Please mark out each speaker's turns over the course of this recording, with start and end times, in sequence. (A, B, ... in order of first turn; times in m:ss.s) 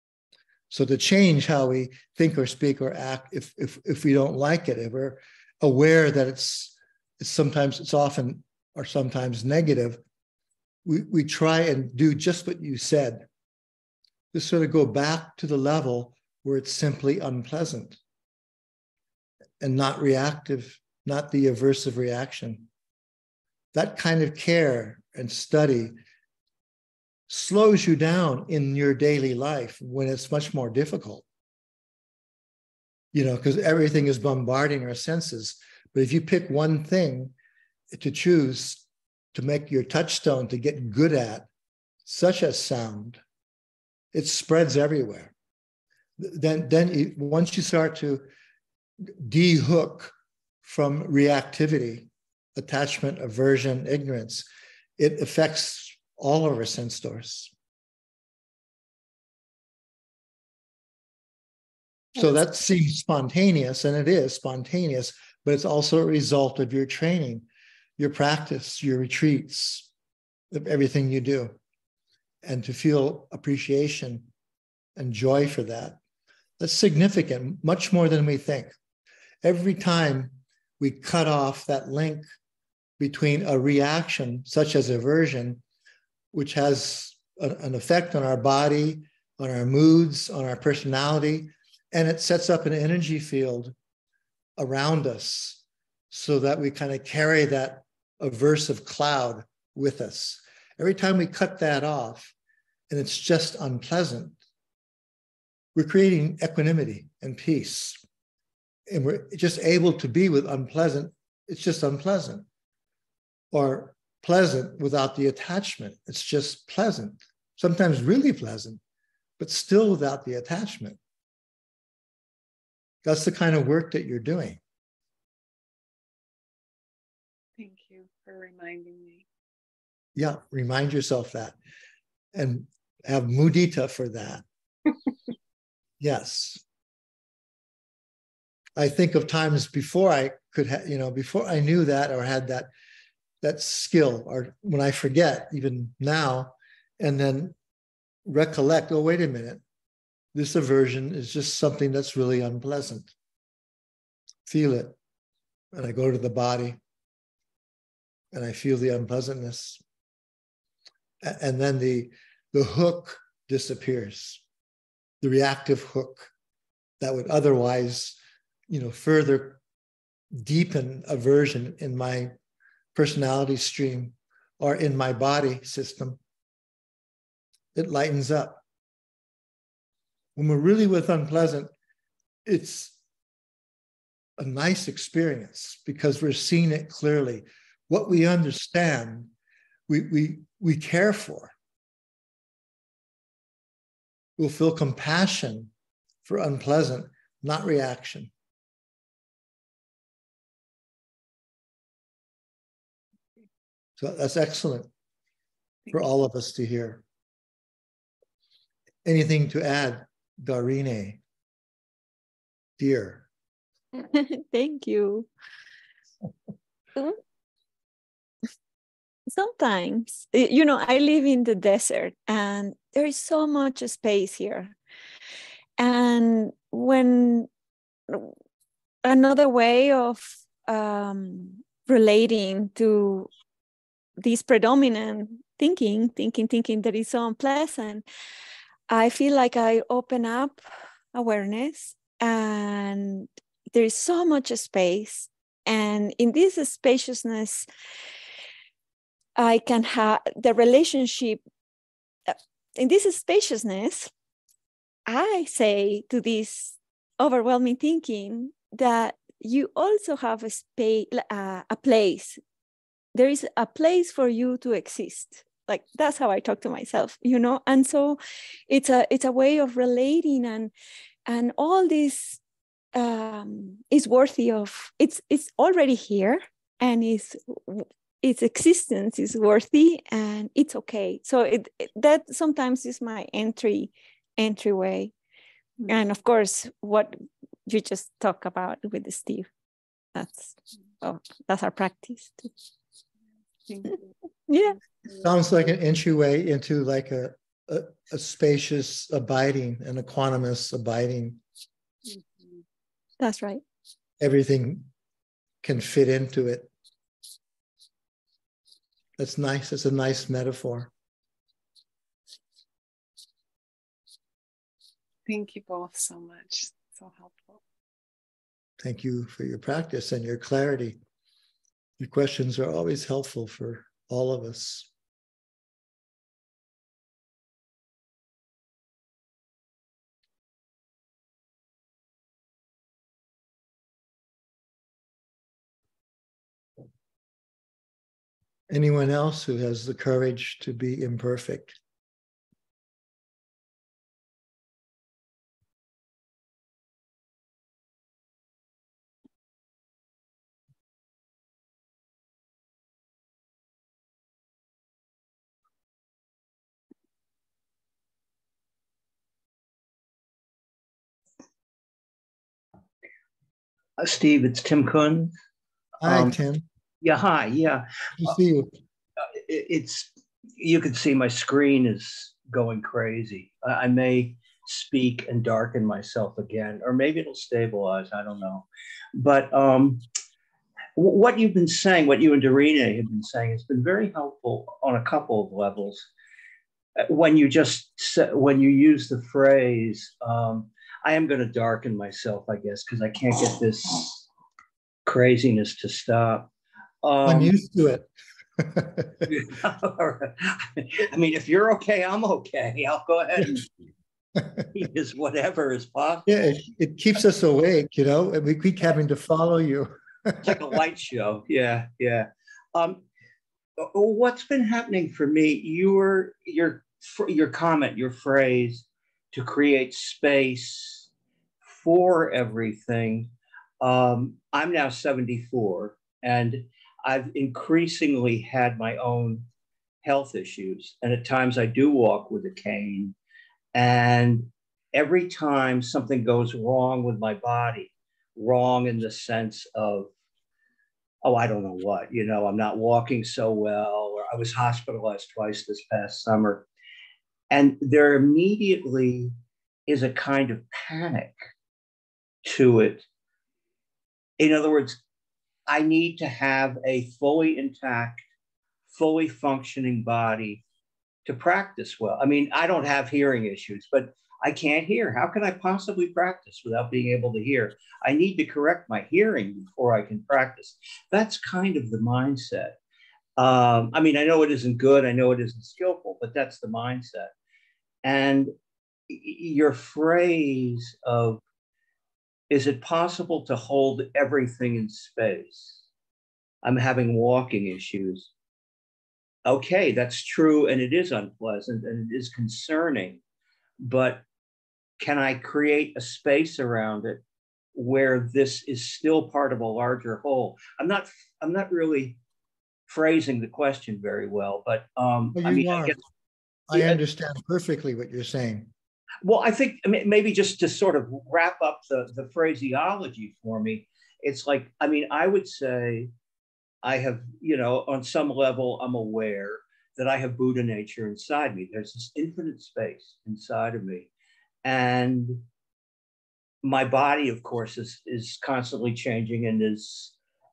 0:00.7-0:10.0 A
0:10.8-0:13.3 A
0:14.3-0:18.0 A
0:19.6-0:22.7 A
0:23.7-0:26.0 A
0:27.3-0:31.2 A
0:33.1-0:37.3 A
0:37.9-0:41.5 A
0:42.1-0:43.2 A
0:44.1-0:45.3 A
0:46.2-0:48.3 A
0:49.2-0:54.4 A
0:55.0-0:57.5 A
1:02.2-1:07.4 A
1:08.0-1:09.9 A
1:10.5-1:11.6 A
1:12.4-1:14.3 A
1:15.0-1:16.0 A
1:16.6-1:18.7 A
1:19.4-1:22.3 A
1:23.0-1:25.6 A
1:26.3-1:33.7 A
1:34.6-1:42.3 A
1:42.9-1:44.4 A
1:45.7-1:48.0 A
1:48.9-1:52.4 A
1:53.5-1:58.8 A
1:59.4-2:01.0 A
2:03.0-2:04.6 A
2:07.6-2:09.2 B
2:10.2-2:11.6 A
2:12.4-2:14.4 A
2:16.0-2:16.6 A
2:18.8-2:22.7 A
2:23.4-2:27.6 A
2:28.2-2:29.6 A
2:30.3-2:33.1 A
2:34.4-2:35.0 A
2:35.7-2:36.8 A
2:38.3-2:39.8 A
2:41.2-2:44.4 A
2:45.2-2:46.3 A
2:47.0-2:48.2 A
2:48.7-2:49.6 A
2:50.3-2:52.3 A
2:53.0-2:56.2 A
2:57.7-2:58.6 A
3:00.4-3:01.7 A
3:02.4-3:03.0 A
3:04.4-3:09.3 A
3:09.9-3:11.5 A
3:14.4-3:15.7 A
3:16.2-3:18.3 A
3:24.0-3:24.9 A
3:25.9-3:27.0 A
3:29.0-3:31.2 A
3:32.8-3:33.3 A
3:33.9-3:35.3 C
3:39.3-3:44.7 C
3:45.8-3:47.5 C
3:48.1-3:48.3 C
3:49.0-3:53.3 C
3:54.2-3:58.0 C
3:58.9-4:07.6 C
4:09.4-4:11.4 C
4:12.3-4:14.1 C
4:15.1-4:22.4 C
4:23.2-4:30.7 C
4:31.3-4:32.4 C
4:32.9-4:45.1 C
4:45.9-4:49.5 C
4:50.1-4:52.5 C
4:53.7-4:54.0 B
4:54.5-4:54.8 C
4:55.2-5:01.4 A
5:02.1-5:02.6 B
5:03.2-5:03.6 C
5:04.2-5:04.9 A
5:05.6-5:06.7 A
5:09.2-5:10.9 A
5:15.3-5:17.6 B
5:18.8-5:21.0 A
5:22.0-5:24.9 A
5:38.7-5:41.8 A
6:04.0-6:05.3 D
6:06.0-6:06.6 A
6:06.0-6:06.3 D
6:07.0-6:08.3 D
6:08.2-6:08.7 A
6:09.2-6:20.0 D
6:21.0-6:26.1 D
6:27.0-6:34.3 D
6:35.1-6:36.5 D
6:37.0-6:37.6 D
6:37.2-6:38.1 A
6:38.6-6:39.3 A
6:39.3-6:43.7 D
6:44.7-6:46.5 D
6:46.3-6:50.8 A
6:50.4-6:53.0 D
6:53.8-7:01.1 D
7:01.6-7:09.4 D
7:10.0-7:13.2 D
7:13.7-7:20.1 D
7:21.2-7:26.6 D
7:27.5-7:29.4 D
7:29.9-7:31.4 D
7:32.4-7:33.0 D
7:34.4-7:35.0 D
7:35.7-7:38.2 D
7:38.9-7:40.6 D
7:41.3-7:52.8 D
7:53.4-7:57.3 D
7:58.0-7:58.5 D
7:59.1-8:01.4 D
8:02.5-8:05.9 D
8:06.6-8:08.3 D
8:09.4-8:13.2 D
8:13.8-8:14.2 D
8:15.0-8:17.2 D
8:17.7-8:22.2 D
8:22.9-8:26.0 D
8:25.4-8:26.0 A
8:26.7-8:28.7 A
8:26.7-8:27.0 D
8:29.2-8:36.1 D
8:36.8-8:44.1 D
8:44.6-8:45.4 D
8:46.6-8:50.2 D